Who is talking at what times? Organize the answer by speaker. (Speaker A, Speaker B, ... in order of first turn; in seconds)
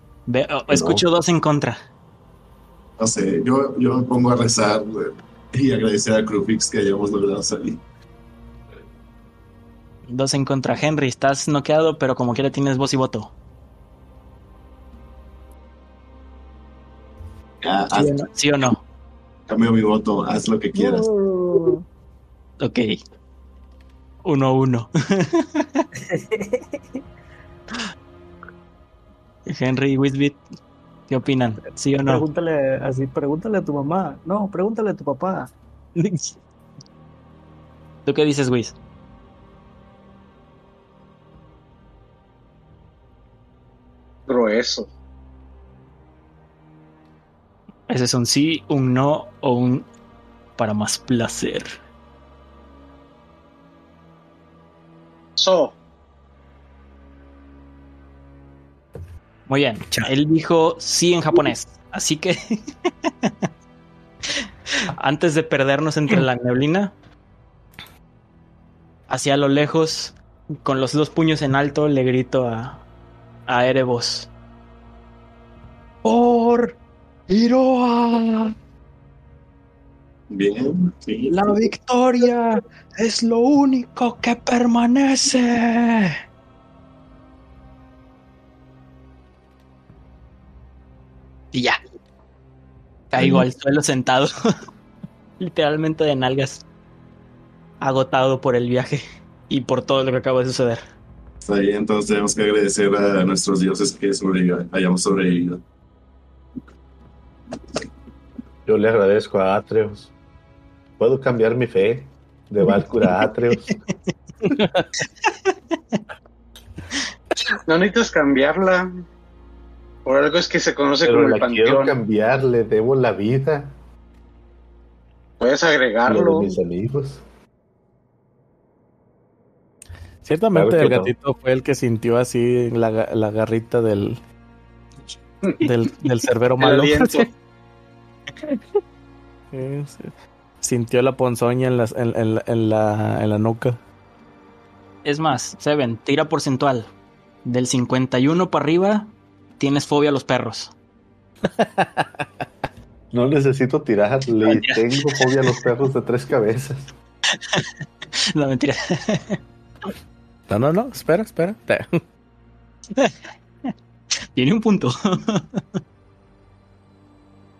Speaker A: 0.3-1.8, 10.1-13.3, 17.9-18.8, 22.6-23.0, 24.2-25.9, 29.5-30.4, 31.1-32.2, 36.0-36.4, 38.0-38.8, 47.9-49.9, 50.6-51.7, 59.5-63.5, 64.9-67.0, 69.1-72.8, 73.5-74.3, 76.0-76.8, 77.3-78.5, 81.3-86.2, 91.5-91.8, 93.1-94.3, 95.4-96.6, 97.8-100.8, 115.2-116.0, 145.0-146.9, 147.4-150.7, 154.4-154.8, 158.3-159.4, 164.3-165.6
Speaker B: 0.7-1.0, 108.7-110.1, 111.0-113.7, 121.0-123.8, 126.0-127.2, 130.5-131.1, 153.1-156.9
Speaker C: 3.0-7.8, 17.6-18.3, 19.5-21.1, 80.3-81.3, 101.4-105.6
Speaker D: 20.7-21.8, 26.1-26.8, 32.0-35.5
Speaker E: 44.3-44.9, 55.4-55.7, 117.7-119.0, 120.0-122.0, 125.4-126.5, 136.6-137.2
Speaker F: 114.6-114.8, 130.2-134.2, 135.6-137.3, 139.5-140.1, 140.6-143.8, 151.6-152.1, 160.5-161.9